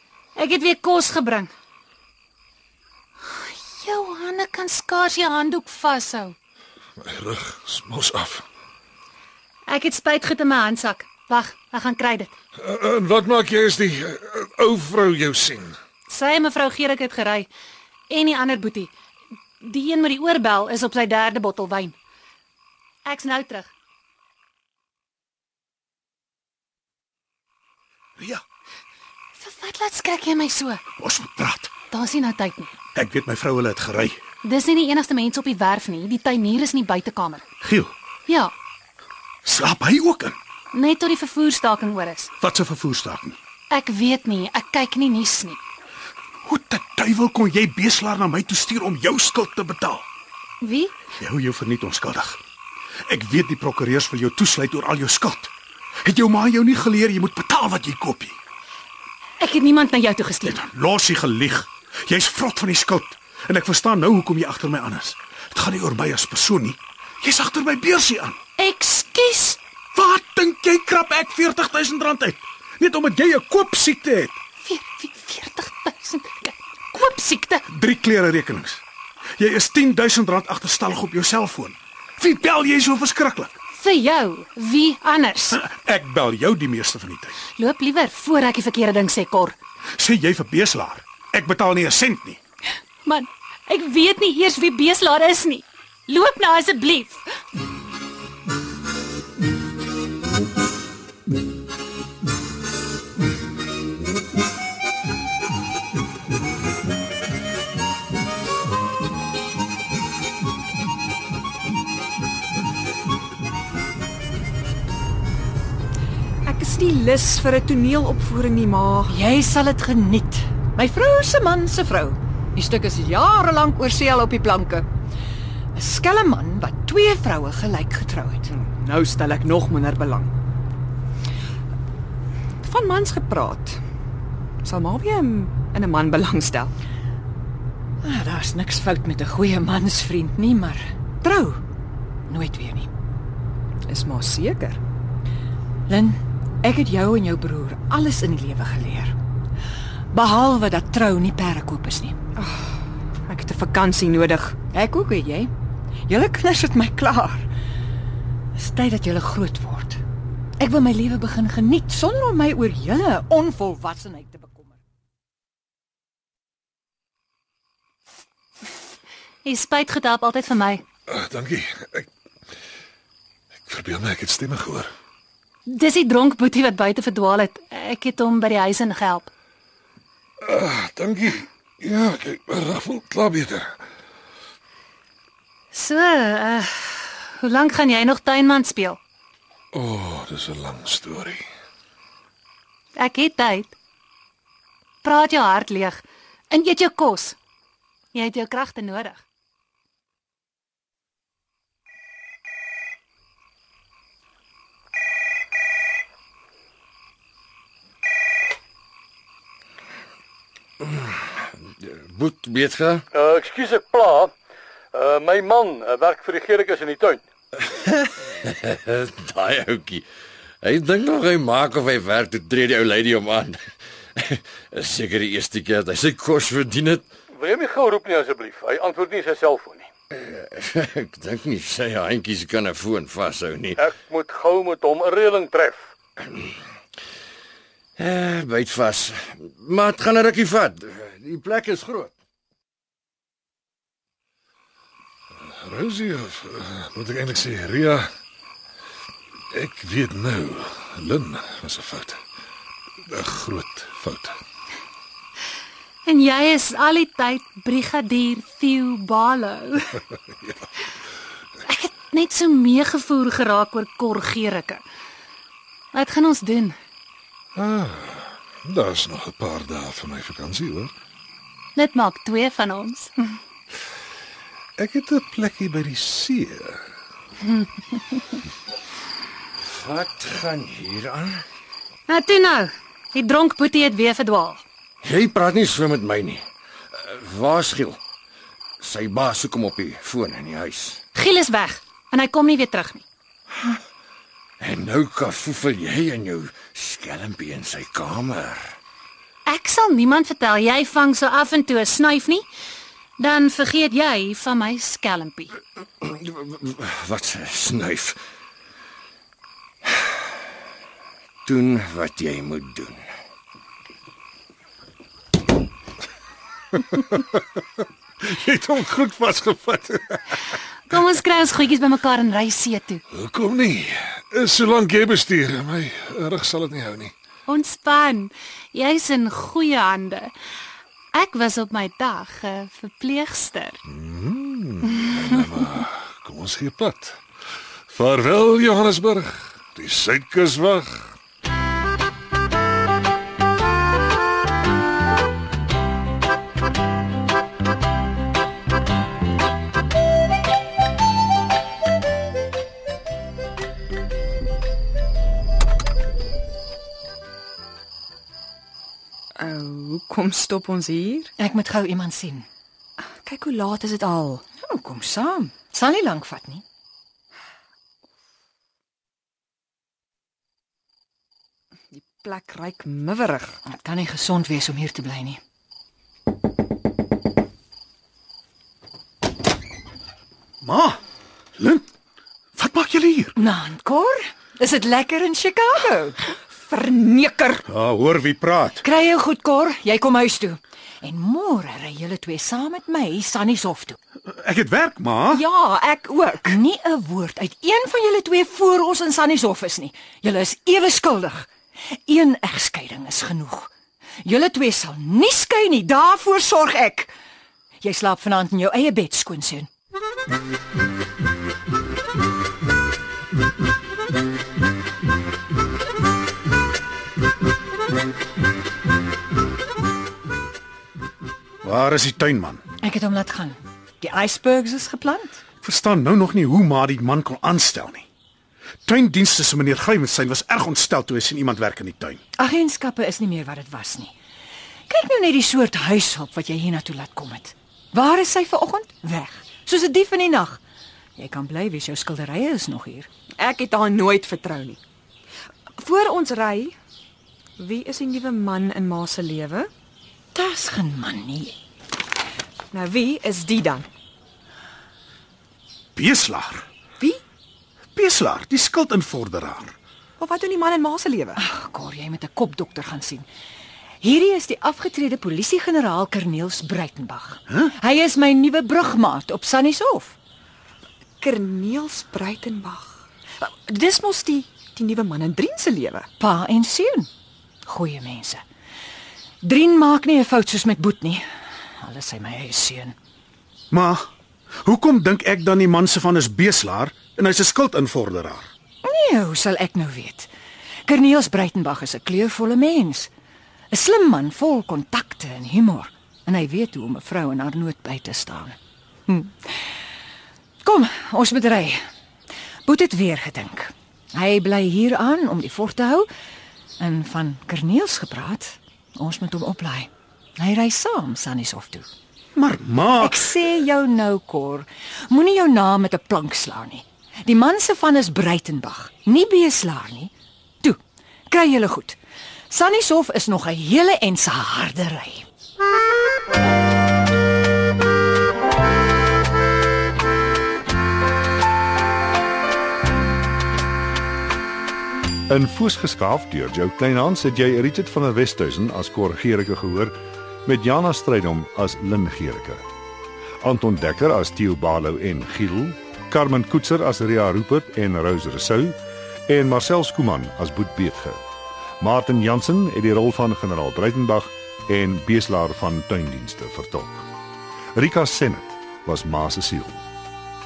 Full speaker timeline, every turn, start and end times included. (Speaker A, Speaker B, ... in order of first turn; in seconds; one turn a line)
Speaker A: 0.4-1.5
Speaker A: 3.3-6.4
Speaker B: 7.0-8.4
Speaker A: 9.7-12.3
Speaker B: 12.6-15.8
Speaker A: 16.1-17.5
Speaker A: 18.1-18.9
Speaker A: 19.6-21.9
Speaker A: 23.1-23.7
Speaker C: 28.2-28.4
Speaker A: 29.4-30.8
Speaker C: 31.0-31.7
Speaker A: 31.9-32.7
Speaker C: 32.9-34.2
Speaker A: 34.4-37.5
Speaker C: 37.6-37.9
Speaker A: 38.3-38.5
Speaker C: 39.4-40.4
Speaker A: 40.7-42.3
Speaker C: 42.4-43.4
Speaker A: 43.7-45.6
Speaker C: 46.4-50.0
Speaker A: 50.6-50.9
Speaker C: 51.2-52.4
Speaker C: 53.1-55.5
Speaker C: 56.0-58.4
Speaker A: 59.4-60.6
Speaker C: 60.4-68.4
Speaker A: 68.6-69.6
Speaker C: 69.9-74.4
Speaker A: 74.6-77.6
Speaker C: 77.7-78.8
Speaker C: 79.4-83.5
Speaker A: 83.7-85.6
Speaker C: 85.5-87.4
Speaker A: 87.6-89.6
Speaker C: 90.0-92.4
Speaker A: 93.0-97.2
Speaker D: 116.4-119.2
Speaker E: 119.1-124.9
Speaker E: 125.7-128.5
Speaker D: 128.5-130.3
Speaker D: 132.6-133.8
Speaker D: 134.6-136.7
Speaker E: 138.0-141.6
Speaker E: 142.3-142.9
Speaker D: 143.9-144.8
Speaker E: 145.9-149.1
Speaker E: 150.1-152.2
Speaker D: 152.4-152.7
Speaker D: 153.3-154.6
Speaker E: 154.7-155.5
Speaker E: 156.1-157.5
Speaker E: 158.6-160.0
Speaker E: 160.6-164.8
Speaker A: 169.4-170.8
Speaker B: 171.1-172.1
Speaker B: 173.7-174.9
Speaker A: 175.7-179.3
Speaker B: 180.4-183.8
Speaker A: 185.7-189.0
Speaker B: 189.7-191.4
Speaker A: 192.9-193.7
Speaker A: 195.0-197.4
Speaker A: 198.1-199.2
Speaker F: 210.8-211.2
Speaker F: 211.8-213.1
Speaker G: 213.1-214.3
Speaker G: 214.9-217.2
Speaker F: 217.6-220.1
Speaker F: 220.6-227.1
Speaker G: 227.3-229.9
Speaker F: 230.1-233.8
Speaker G: 233.8-235.9
Speaker F: 238.0-242.1
Speaker B: 245.6-248.1
Speaker B: 249.5-252.2
Speaker B: 253.1-254.4
Speaker A: 256.1-260.0
Speaker A: 261.6-264.8
Speaker A: 265.9-266.8
Speaker B: 267.6-270.9
Speaker A: 271.8-273.4
Speaker B: 274.8-276.8
Speaker F: 279.6-281.4
Speaker A: 282.1-284.6
Speaker F: 285.0-288.0
Speaker F: 288.8-291.0
Speaker A: 291.1-293.1
Speaker F: 294.6-298.8
Speaker A: 299.4-302.4
Speaker A: 303.2-305.5
Speaker F: 306.0-308.2
Speaker F: 311.4-313.0
Speaker B: 316.9-317.2
Speaker B: 318.2-320.2
Speaker A: 320.9-323.0
Speaker B: 323.1-327.1
Speaker A: 327.5-330.3
Speaker A: 331.1-333.8
Speaker B: 333.9-337.2
Speaker B: 337.9-341.1
Speaker D: 359.4-361.3
Speaker E: 361.4-362.5
Speaker D: 363.0-364.4
Speaker E: 364.6-366.6
Speaker D: 371.9-373.6
Speaker E: 373.7-375.4
Speaker C: 380.6-381.0
Speaker C: 381.6-381.9
Speaker C: 382.6-383.4
Speaker E: 383.4-386.2
Speaker D: 386.7-387.6
Speaker C: 387.6-388.8
Speaker E: 388.8-394.0
Speaker C: 394.3-395.4
Speaker D: 395.3-396.6
Speaker E: 396.4-401.5
Speaker E: 402.1-403.7
Speaker E: 404.2-407.1
Speaker E: 407.8-409.7
Speaker C: 421.6-422.6
Speaker E: 422.8-425.4
Speaker C: 425.6-428.1
Speaker C: 428.8-432.2
Speaker E: 432.4-434.1
Speaker E: 434.9-440.6
Speaker E: 441.2-443.1
Speaker D: 443.4-444.8
Speaker D: 445.8-446.7
Speaker D: 447.6-449.7
Speaker E: 450.3-451.6
Speaker D: 452.7-453.9
Speaker C: 455.9-456.7
Speaker C: 457.9-459.8
Speaker D: 460.2-461.4
Speaker E: 461.4-463.3
Speaker E: 464.0-470.1
Speaker D: 471.2-476.1
Speaker E: 476.2-477.1
Speaker E: 477.6-478.4
Speaker E: 479.4-481.2
Speaker E: 481.8-482.9
Speaker C: 483.7-484.1
Speaker C: 484.6-488.5
Speaker E: 488.8-490.3
Speaker E: 490.8-493.1
Speaker E: 493.7-498.6
Speaker E: 499.1-499.6
Speaker E: 500.6-501.8
Speaker E: 502.6-506.1
Speaker E: 506.8-511.9
Speaker C: 512.3-513.3
Speaker E: 513.0-522.0
Speaker E: 522.5-525.2
Speaker H: 535.3-542.6
Speaker H: 543.4-551.2
Speaker H: 551.8-557.1
Speaker H: 557.7-559.8